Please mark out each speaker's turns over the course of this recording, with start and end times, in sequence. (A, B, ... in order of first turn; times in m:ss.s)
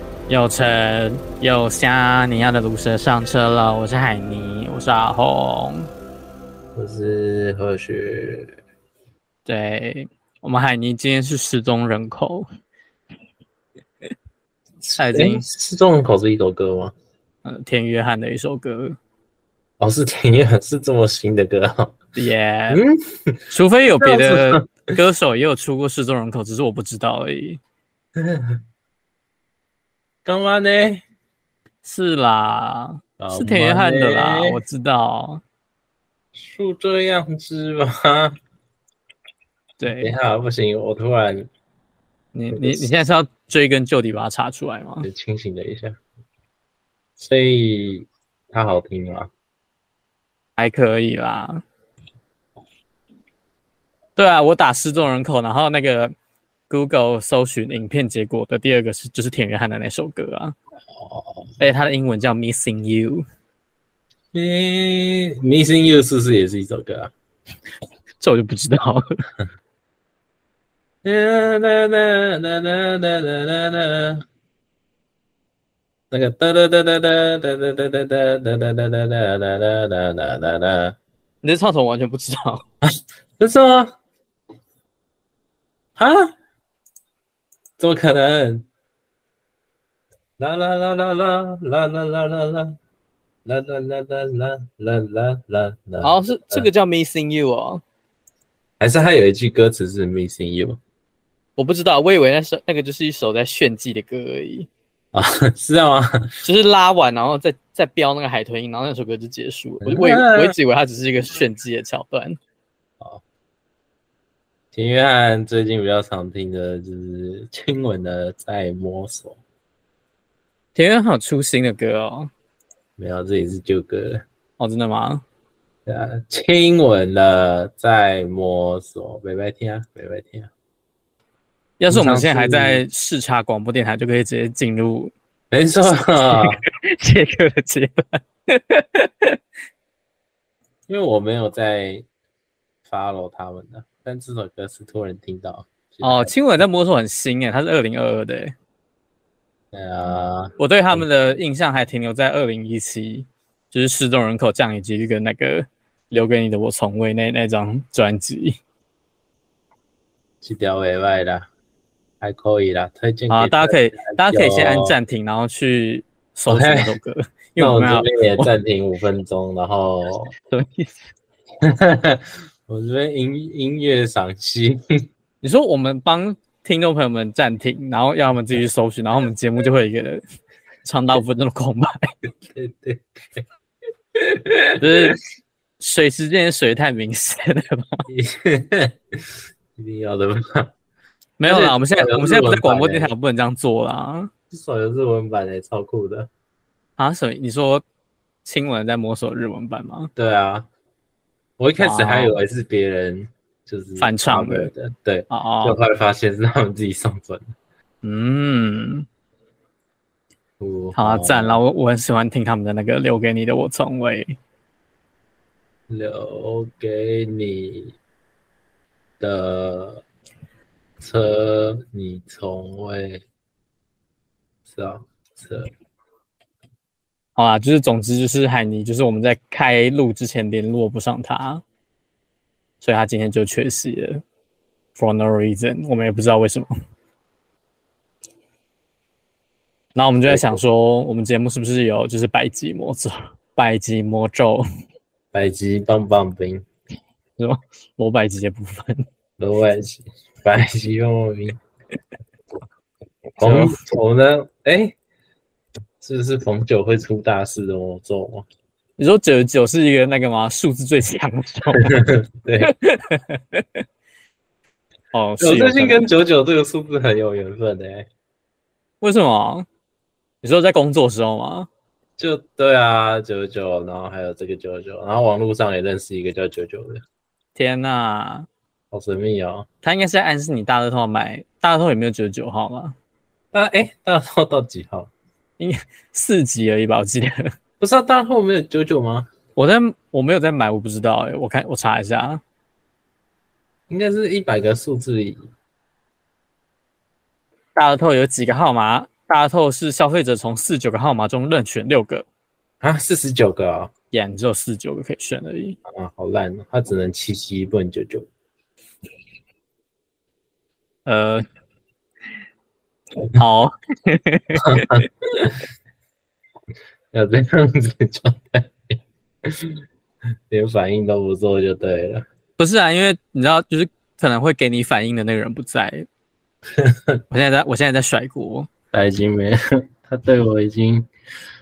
0:00.3-0:05.9 A
0:06.8-0:08.6 B
0:09.5-0:12.5 A
0:14.8-0:16.9 B
0:15.0-0:15.4 A
0:17.4-0:19.0 A
0:19.8-0:22.0 B
0:22.2-0:22.8 A
0:22.7-0:23.4 B
0:23.5-0:27.6 A
0:23.9-0:24.7 B
0:28.2-0:28.6 B
0:30.2-0:31.0 B
0:31.8-0:35.4 A
0:33.2-0:34.6 B
0:36.3-0:38.4 B
0:39.8-0:40.1 A
0:39.8-0:41.5 B
0:42.3-0:45.1 A
0:42.5-0:42.9 B
0:45.0-0:46.0 B
0:47.2-0:49.3 B
0:50.6-0:51.6 A
0:54.2-0:56.1 A
0:56.7-1:00.6 A
1:01.0-1:01.5 B
1:01.6-1:03.2 A
1:04.3-1:07.1 B
1:08.2-1:09.1 A
1:11.0-1:14.2 B
1:16.1-1:21.0 B
1:21.4-1:22.6 A
1:22.8-1:23.9 B
1:26.0-1:26.3 B
1:27.8-1:28.7 B
1:30.4-1:32.8 B
1:33.4-1:36.7 B
1:36.0-1:37.8 A
1:38.8-1:40.8 B
1:41.6-1:44.7 A
1:45.1-1:46.3 B
1:46.4-1:52.4 A
1:49.8-1:50.6 B
1:54.7-1:59.4 B
2:00.8-2:02.3 A
2:03.0-2:04.2 B
2:04.6-2:05.2 A
2:05.9-2:10.5 B
2:11.8-2:15.1 A
2:11.9-2:12.8 B
2:15.5-2:16.6 B
2:15.8-2:19.4 A
2:20.9-2:22.1 B
2:22.9-2:26.3 B
2:26.0-2:28.6 A
2:29.7-2:31.0 B
2:30.6-2:38.6 A
2:40.4-2:41.5 B
2:42.2-2:45.0 B
2:43.3-2:48.5 A
2:46.5-2:47.0 B
2:47.6-2:50.3 B
2:50.5-2:51.0 A
2:51.6-2:54.9 B
2:55.4-3:00.2 A
3:00.8-3:02.1 A
3:02.5-3:03.4 B
3:04.2-3:05.2 B
3:04.8-3:05.2 A
3:05.8-3:08.1 A
3:08.1-3:10.7 B
3:11.4-3:14.3 A
3:11.4-3:13.1 B
3:14.5-3:16.3 B
3:17.0-3:17.8 A
3:18.4-3:20.1 A
3:20.2-3:20.7 B
3:21.6-3:27.5 B
3:21.8-3:22.4 A
3:24.0-3:24.7 A
3:25.3-3:25.8 A
3:28.0-3:29.1 A
3:30.6-3:31.6 B
3:31.0-3:34.4 A
3:35.9-3:38.0 B
3:39.2-3:40.0 B
3:41.0-3:43.2 B
3:44.7-3:45.7 B
3:47.4-3:51.6 A
3:52.8-3:54.2 A
3:55.0-3:56.7 A
4:00.0-4:04.6 A
4:00.3-4:00.6 B
4:05.3-4:06.6 B
4:07.4-4:09.1 A
4:09.4-4:11.6 B
4:13.4-4:13.8 A
4:13.4-4:15.0 B
4:16.0-4:18.5 B
4:19.0-4:22.1 A
4:21.7-4:22.7 B
4:22.6-4:23.8 A
4:25.1-4:26.1 A
4:25.4-4:28.1 B
4:29.0-4:29.7 A
4:30.4-4:31.7 A
4:32.2-4:37.0 B
4:37.6-4:38.5 A
4:38.9-4:39.7 B
4:39.8-4:43.0 A
4:43.5-4:45.1 B
4:45.6-4:47.5 A
4:47.8-4:49.3 B
4:49.6-4:52.4 A
4:53.9-4:55.4 B
4:57.8-5:02.3 A
5:02.8-5:03.9 B
5:04.1-5:05.8 A
5:05.9-5:08.3 B
5:11.1-5:11.4 A
5:13.3-5:15.0 A
5:14.6-5:15.6 B
5:17.1-5:19.8 B
5:20.5-5:22.2 B
5:22.6-5:26.1 A
5:27.3-5:28.7 A
5:28.9-5:31.1 B